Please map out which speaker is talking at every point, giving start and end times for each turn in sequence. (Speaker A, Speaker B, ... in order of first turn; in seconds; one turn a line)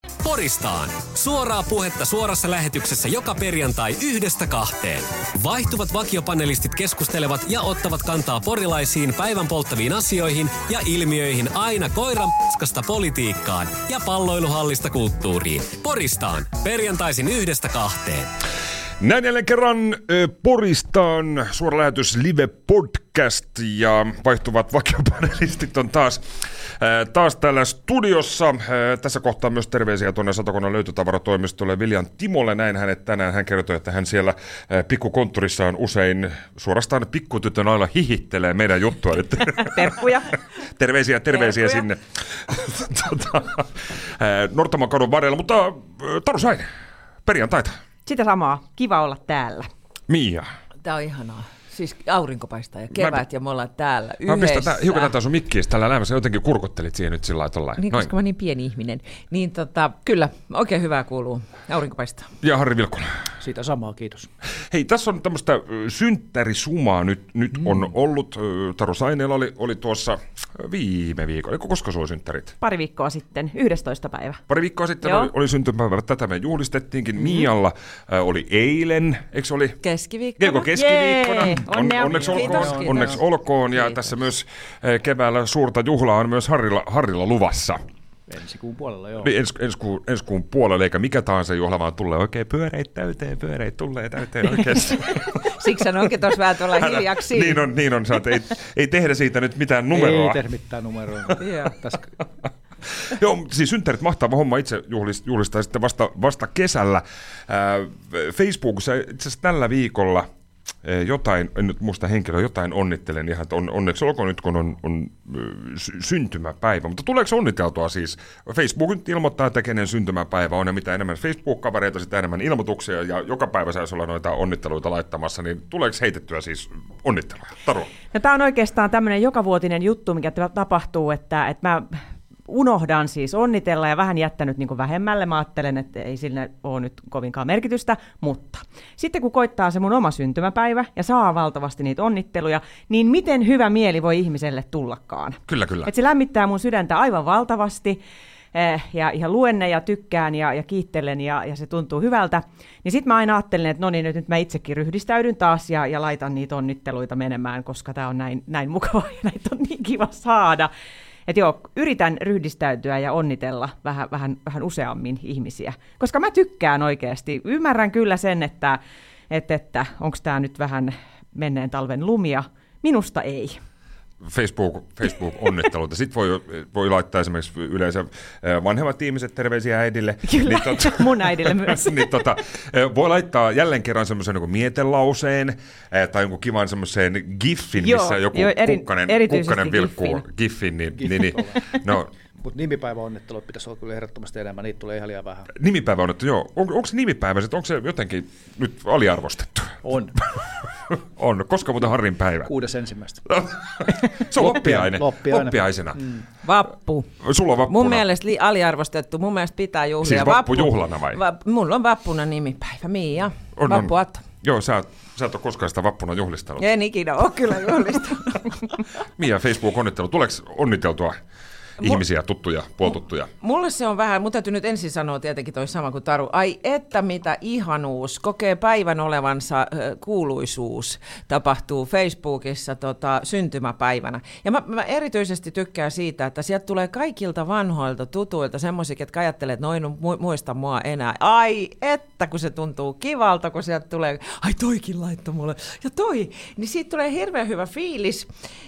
Speaker A: 0.2-18.3
Speaker B: 19.0-40.0
Speaker C: 39.6-40.4
Speaker B: 40.7-46.7
Speaker C: 41.4-41.8
Speaker B: 47.2-47.8
Speaker C: 48.1-49.7
Speaker B: 50.1-50.5
Speaker D: 50.8-55.1
Speaker B: 53.0-53.2
Speaker B: 54.3-58.1
Speaker D: 57.8-62.3
Speaker B: 62.4-63.3
Speaker E: 63.4-64.3
Speaker B: 64.7-72.5
Speaker C: 72.6-74.4
Speaker B: 74.5-79.8
Speaker C: 75.0-75.3
Speaker D: 79.8-80.8
Speaker B: 80.4-87.8
Speaker C: 80.7-83.1
Speaker D: 82.3-84.1
Speaker E: 82.3-83.2
Speaker E: 88.3-89.3
Speaker B: 89.2-95.5
Speaker D: 95.2-97.6
Speaker B: 96.7-100.4
Speaker E: 99.9-102.1
Speaker D: 101.4-101.7
Speaker B: 103.0-110.3
Speaker B: 110.8-127.9
Speaker C: 128.1-148.0
Speaker B: 145.5-145.9
Speaker C: 148.5-160.7
Speaker C: 161.3-168.8
Speaker C: 169.3-173.6
Speaker B: 174.2-192.1
Speaker C: 180.3-182.1
Speaker C: 187.7-190.2
Speaker E: 190.9-191.7
Speaker E: 192.4-195.5
Speaker B: 195.6-202.5
Speaker E: 199.8-200.2
Speaker E: 202.5-203.3
Speaker B: 203.3-206.0
Speaker E: 204.3-206.2
Speaker D: 206.4-207.2
Speaker B: 207.2-208.0
Speaker D: 207.7-214.2
Speaker B: 210.0-211.2
Speaker B: 213.6-216.7
Speaker D: 216.6-218.6
Speaker B: 219.0-221.2
Speaker B: 221.8-223.3
Speaker D: 223.4-248.3